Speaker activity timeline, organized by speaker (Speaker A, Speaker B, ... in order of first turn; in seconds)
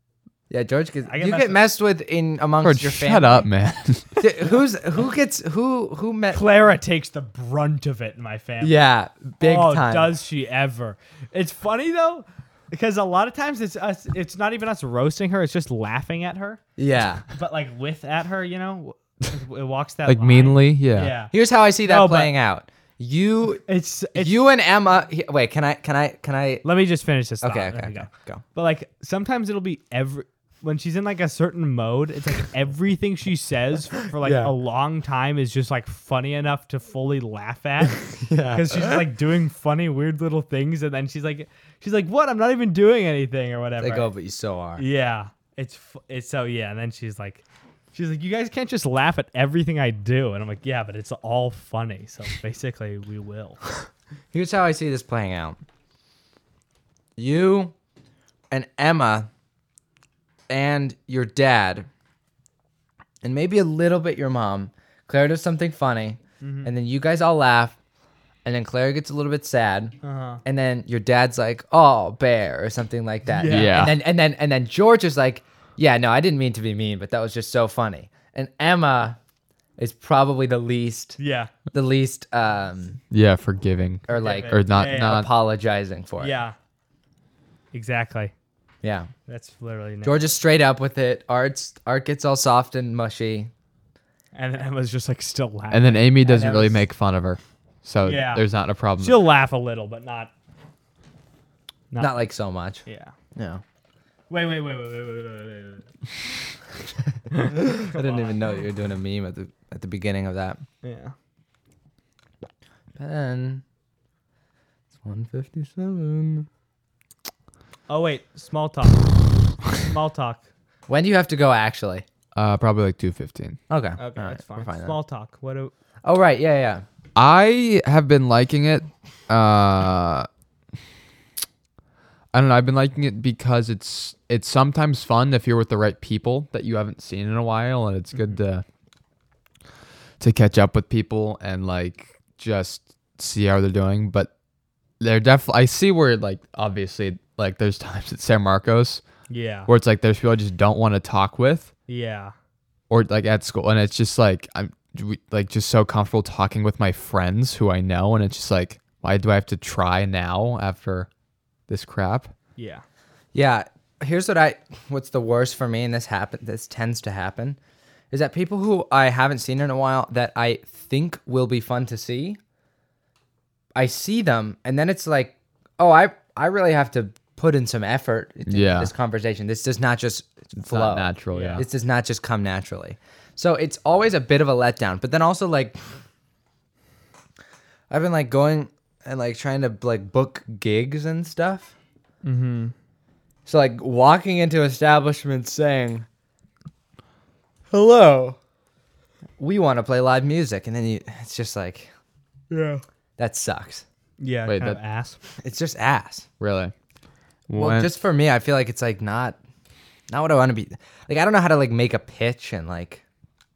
Speaker A: 0.5-3.5, 4.2-6.4, 8.6-10.1, 16.8-17.2, 21.3-26.6, 27.4-28.4, 34.2-34.5, 38.2-39.0, 43.8-44.8, 54.3-55.6, 57.2-57.7, 58.5-59.3, 60.5-61.9, 63.2-67.8, 68.4-79.2, 79.8-81.2, 81.7-83.0, 84.1-86.3, 88.8-89.1, 90.0-93.5, 102.0-102.8, 103.3-103.6, 107.5-110.6, 113.0-113.6, 115.0-116.5, 120.9-122.0, 123.7-125.0, 126.0-126.8, 163.3-167.6, 168.1-172.4, 173.7-185.9, 187.9-191.7, 193.4-196.1, 199.4-201.9, 203.2-203.8, 205.4-206.3, 207.5-209.4, 210.1-213.0
Speaker B: 1.1-1.6, 6.3-8.8, 9.4-16.6, 17.3-22.3, 23.7-24.4, 26.6-44.1, 44.8-47.4, 47.9-53.6, 66.4-66.7, 70.0-70.4, 73.3-73.9, 81.2-81.5, 84.1-85.3, 86.2-86.5, 87.7-88.3, 89.3-90.3, 94.3-96.8, 98.0-98.4, 99.0-100.3, 101.9-102.2, 102.8-103.1, 104.3-105.9, 107.3-108.4, 110.8-111.1, 117.9-120.4, 124.0-125.7, 149.3-149.7, 151.9-152.3, 162.6-162.8, 181.3-181.6, 192.2-192.7, 197.7-198.3, 202.5-202.8, 204.2-205.2
Speaker C: 2.6-4.2, 20.1-21.1, 73.5-73.9, 83.1-85.3, 95.7-99.2, 122.3-123.6, 127.2-130.3, 132.3-138.6, 140.2-144.3, 145.0-149.0, 149.7-151.7, 152.9-161.1, 161.7-162.3, 178.5-178.9, 180.6-181.6, 204.5-204.8, 206.4-206.7, 207.5-207.9